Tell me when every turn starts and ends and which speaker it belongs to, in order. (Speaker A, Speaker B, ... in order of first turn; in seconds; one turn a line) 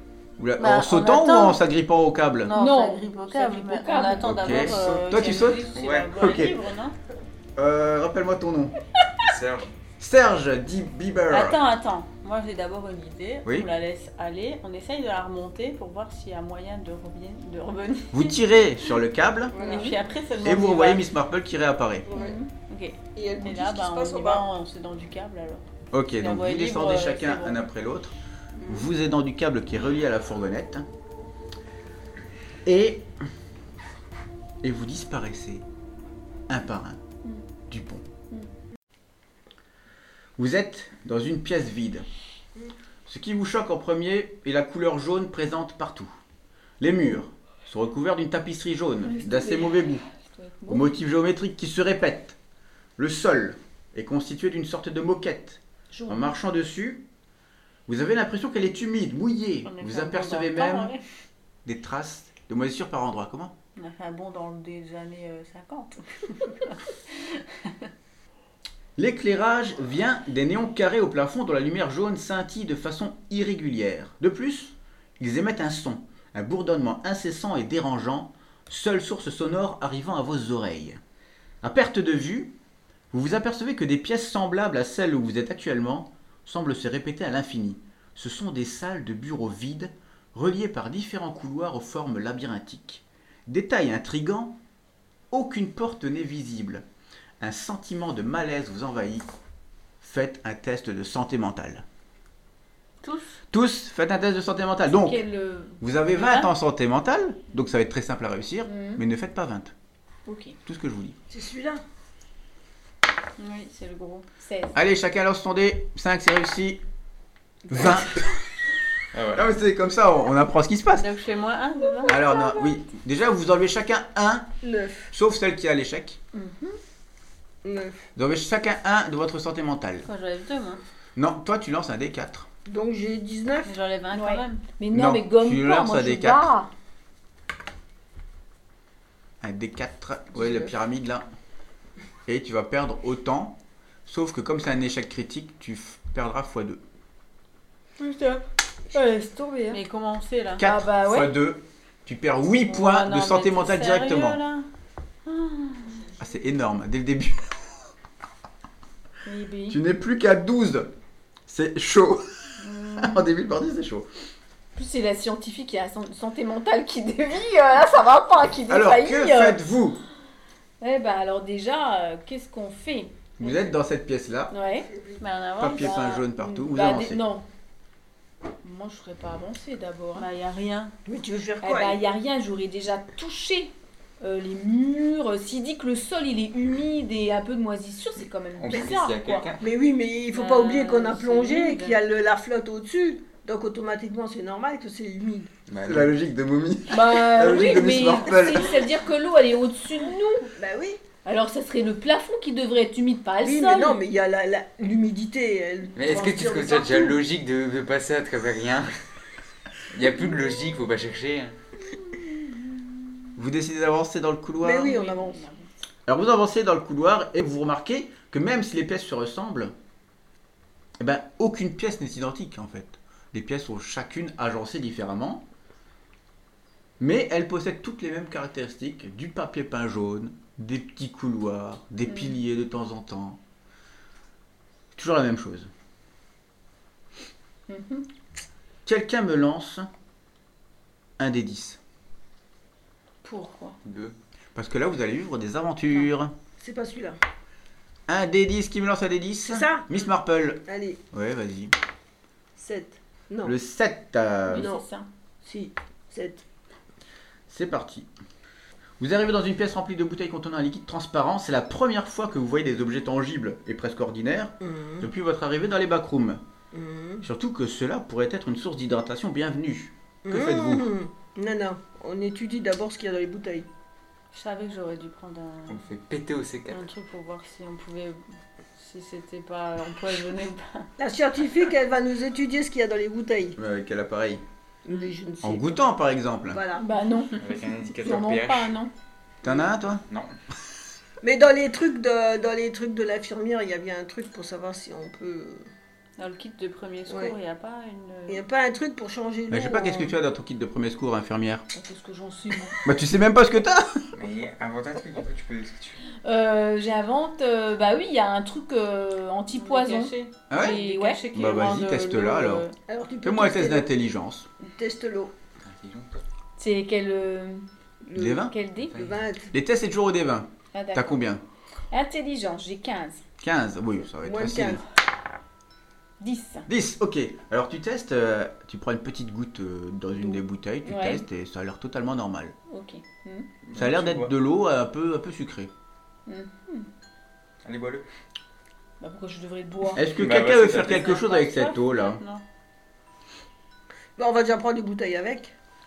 Speaker A: 0.4-2.5
Speaker B: 0.6-1.6
Speaker B: 2.4-6.9
Speaker C: 2.5-4.6
Speaker A: 4.2-6.6
Speaker D: 4.5-5.0
Speaker D: 5.7-6.1
Speaker A: 7.6-8.7
Speaker D: 9.2-9.7
Speaker A: 10.0-11.6
Speaker B: 11.3-18.4
Speaker A: 18.1-19.5
Speaker E: 19.5-20.1
Speaker B: 19.5-21.0
Speaker A: 20.4-22.1
Speaker E: 22.1-22.4
Speaker C: 22.1-22.5
Speaker B: 22.5-25.6
Speaker E: 23.1-24.5
Speaker A: 25.9-28.1
Speaker B: 26.2-27.6
Speaker E: 28.6-28.9
Speaker A: 28.7-30.9
Speaker A: 32.6-33.1
Speaker A: 34.6-35.6
Speaker A: 36.5-37.0
Speaker A: 37.7-38.1
Speaker A: 40.4-42.0
Speaker A: 43.0-46.1
Speaker A: 46.8-50.0
Speaker C: 49.0-51.0
Speaker A: 50.7-52.4
Speaker A: 53.0-57.0
Speaker C: 55.9-56.3
Speaker A: 57.9-60.9
Speaker B: 59.6-61.0
Speaker A: 61.6-63.5
Speaker B: 63.8-67.9
Speaker A: 69.0-81.0
Speaker A: 81.6-82.5
Speaker A: 83.1-94.5
Speaker A: 95.3-96.8
Speaker A: 97.4-99.2
Speaker A: 100.0-101.8
Speaker B: 103.0-103.4
Speaker A: 103.5-105.2
Speaker C: 104.9-106.5
Speaker A: 105.8-109.7
Speaker C: 108.7-109.0
Speaker C: 110.2-110.6
Speaker A: 110.6-111.2
Speaker E: 111.3-111.8
Speaker B: 113.4-114.2
Speaker C: 114.4-114.8
Speaker A: 114.7-116.8
Speaker E: 117.7-118.1
Speaker A: 117.7-118.4
Speaker D: 119.1-119.5
Speaker A: 119.3-121.1
Speaker B: 120.9-122.3
Speaker A: 122.0-124.5
Speaker C: 122.1-122.8
Speaker E: 124.6-125.1
Speaker A: 125.1-126.2
Speaker C: 126.3-126.8
Speaker E: 127.6-128.0
Speaker A: 128.2-130.1
Speaker B: 130.1-130.8
Speaker A: 131.2-132.5
Speaker E: 132.7-133.7
Speaker B: 133.7-134.7
Speaker C: 134.1-136.7
Speaker A: 134.9-136.5
Speaker A: 139.4-141.2
Speaker E: 140.3-140.7
Speaker A: 142.2-146.8
Speaker C: 148.0-149.8
Speaker B: 149.7-150.6
Speaker A: 150.6-154.4
Speaker C: 150.6-151.3
Speaker B: 152.7-154.7
Speaker B: 155.2-156.1
Speaker A: 156.2-157.7
Speaker C: 159.2-159.8
Speaker A: 159.7-160.9
Speaker A: 161.5-164.1
Speaker B: 162.7-163.1
Speaker C: 164.7-169.6
Speaker A: 168.7-170.0
Speaker C: 170.8-173.7
Speaker A: 173.4-174.5
Speaker C: 174.5-174.9
Speaker E: 174.6-175.3
Speaker B: 175.2-176.0
Speaker A: 175.6-177.2
Speaker C: 175.6-177.4
Speaker C: 178.6-180.3
Speaker B: 180.1-180.9
Speaker E: 181.1-182.0
Speaker C: 181.6-189.5
Speaker D: 188.6-189.6
Speaker E: 189.6-195.5
Speaker B: 190.3-192.0
Speaker D: 195.7-196.2
Speaker A: 195.8-198.8
Speaker C: 196.9-200.5
Speaker E: 200.6-201.0
Speaker C: 201.2-204.0
Speaker E: 203.4-207.2
Speaker D: 205.9-208.9
Speaker D: 209.9-211.5
Speaker A: 213.3-215.0
Speaker E: 214.6-215.4
Speaker C: 214.8-215.7
Speaker A: 216.1-219.7
Speaker A: 221.0-225.4
Speaker A: 227.0-233.4
Speaker C: 232.1-232.3
Speaker A: 234.9-235.7
Speaker C: 237.7-238.1
Speaker A: 238.8-239.9
Speaker A: 241.2-241.8
Speaker C: 243.2-243.8
Speaker D: 243.8-244.1
Speaker A: 244.5-246.3
Speaker E: 246.6-247.2
Speaker A: 248.1-251.7
Speaker E: 249.4-249.9
Speaker E: 250.7-251.0
Speaker E: 252.6-253.5
Speaker A: 253.4-254.7
Speaker C: 254.5-255.1
Speaker E: 254.5-254.8
Speaker E: 255.4-256.4
Speaker A: 257.5-258.1
Speaker A: 259.0-266.4
Speaker E: 264.6-265.1
Speaker E: 266.7-267.2
Speaker A: 267.2-270.9
Speaker E: 270.3-273.7
Speaker B: 274.3-275.8
Speaker D: 275.7-276.9
Speaker B: 276.7-278.2
Speaker B: 278.7-280.9
Speaker E: 281.0-283.6
Speaker A: 283.6-284.4
Speaker E: 284.8-285.8
Speaker A: 285.4-286.6
Speaker E: 286.5-286.8
Speaker C: 286.8-288.9
Speaker D: 287.3-288.7
Speaker A: 289.4-290.0
Speaker D: 290.1-290.3
Speaker E: 291.2-295.7
Speaker B: 296.2-298.4
Speaker E: 297.1-297.4
Speaker E: 298.3-300.1
Speaker A: 299.5-301.6
Speaker C: 301.7-302.8
Speaker A: 302.8-304.1
Speaker D: 304.1-306.0
Speaker C: 306.2-311.2
Speaker B: 309.5-312.8
Speaker A: 310.5-310.8
Speaker A: 311.3-312.6
Speaker E: 312.9-313.9
Speaker A: 313.2-314.5
Speaker E: 314.7-315.3
Speaker D: 315.6-316.2
Speaker C: 316.6-317.6
Speaker E: 318.0-319.5
Speaker A: 318.1-318.5
Speaker C: 318.2-318.9
Speaker D: 318.9-319.2
Speaker A: 319.5-321.4
Speaker C: 320.7-321.2
Speaker C: 321.9-323.2
Speaker A: 323.4-324.8
Speaker E: 324.2-324.8
Speaker C: 326.2-326.7
Speaker A: 326.7-332.6
Speaker C: 330.8-331.2
Speaker C: 332.7-333.5
Speaker D: 333.6-334.3
Speaker A: 333.7-335.7
Speaker C: 336.3-336.9
Speaker D: 337.6-338.0
Speaker C: 339.0-340.1
Speaker A: 339.9-342.2
Speaker D: 340.1-341.2
Speaker B: 340.8-342.4
Speaker E: 344.2-345.5